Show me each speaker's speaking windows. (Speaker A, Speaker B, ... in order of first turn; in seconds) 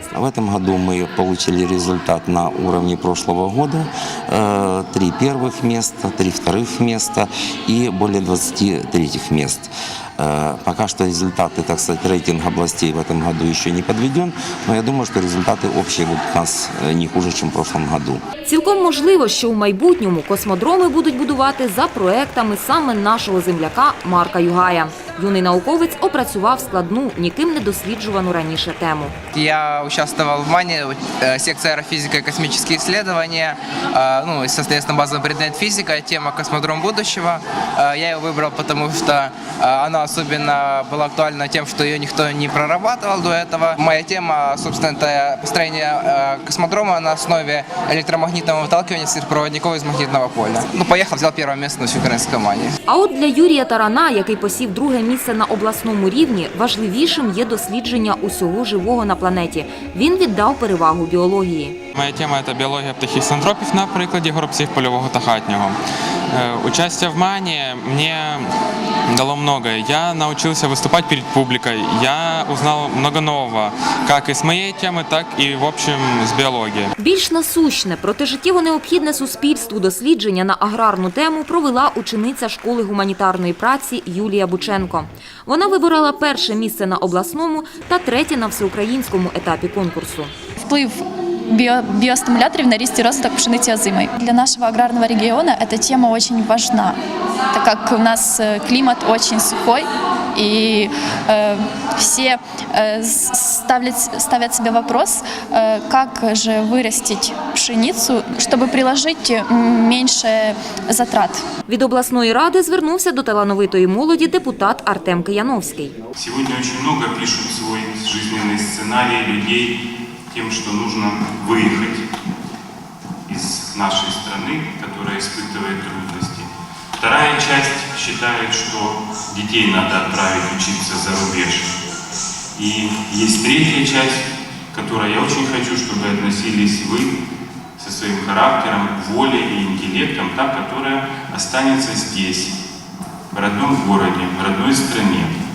Speaker A: 0.1-18.2
Speaker B: 18.4-29.1, 52.9-61.8, 77.0-90.3, 111.7-115.9
Speaker C: 29.3-52.7
Speaker D: 61.9-65.8, 66.3-68.5, 69.1-76.9
Speaker E: 90.6-97.0, 97.5-111.4
Speaker F: 116.2-122.0, 123.3-131.8, 132.6-137.2, 137.8-142.6, 143.3-145.4